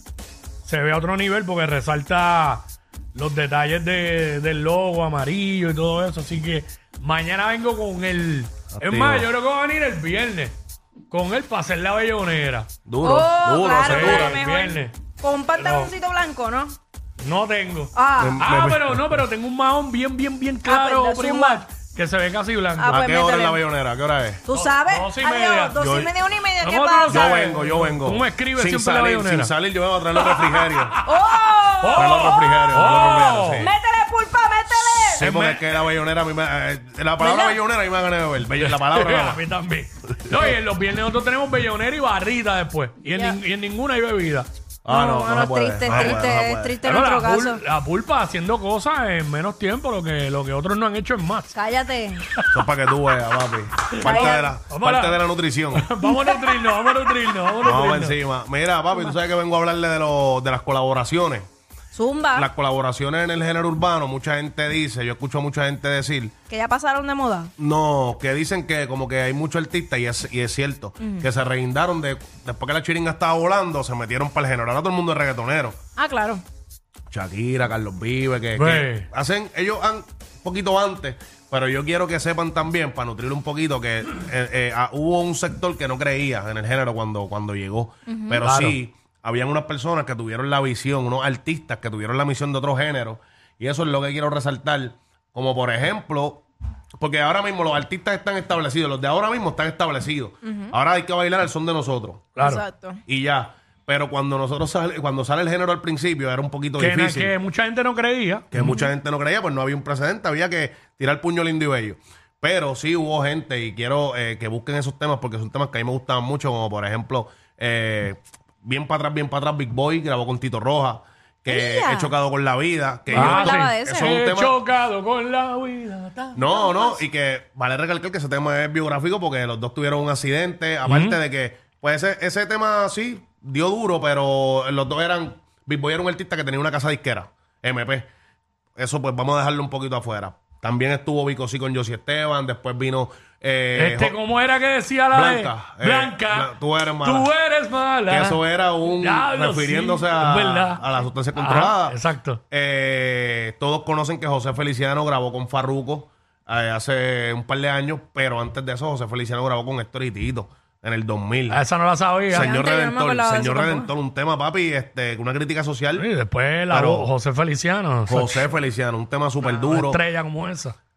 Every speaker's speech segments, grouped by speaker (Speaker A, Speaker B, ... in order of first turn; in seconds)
Speaker A: 0.6-10.5, 11.1-12.7, 13.8-14.9, 15.6-15.9, 17.2-23.0, 24.5-25.8, 26.6-29.5, 30.1-33.7, 35.1-35.9, 38.5-44.5, 45.9-46.2, 46.8-51.5, 52.3-52.7, 53.8-58.2, 78.5-79.1, 88.4-88.8, 102.4-102.6, 106.8-108.8, 123.1-126.4, 130.8-131.2, 143.7-152.4, 161.5-162.5, 165.9-168.4, 169.4-170.8
Speaker B: 8.7-9.3, 12.8-14.3, 18.2-19.2, 22.9-24.4, 25.8-26.1, 27.1-31.0, 31.9-33.7, 35.1-39.4, 44.8-46.8, 52.5-55.9, 57.6-61.5, 62.3-66.3, 67.6-75.8, 77.1-96.4, 97.0-102.3, 103.1-107.3, 108.5-124.6, 126.3-138.1, 138.8-144.2, 145.1-147.3, 148.1-152.0, 152.5-161.6, 162.3-166.1, 166.7-167.1, 168.1-170.0
Speaker C: 13.0-16.7, 17.9-18.5, 20.6-21.6, 22.8-23.6, 24.4-27.5, 31.0-33.0, 33.5-35.2, 37.2-37.6, 44.9-47.6, 51.5-52.2, 54.0-54.5, 56.0-57.0, 61.9-62.5, 66.5-67.5, 71.0-71.3, 76.0-76.4, 88.1-88.4, 100.4-100.7, 102.4-103.0, 108.6-108.9, 121.5-122.1, 123.1-124.2, 126.4-127.0, 162.3-163.9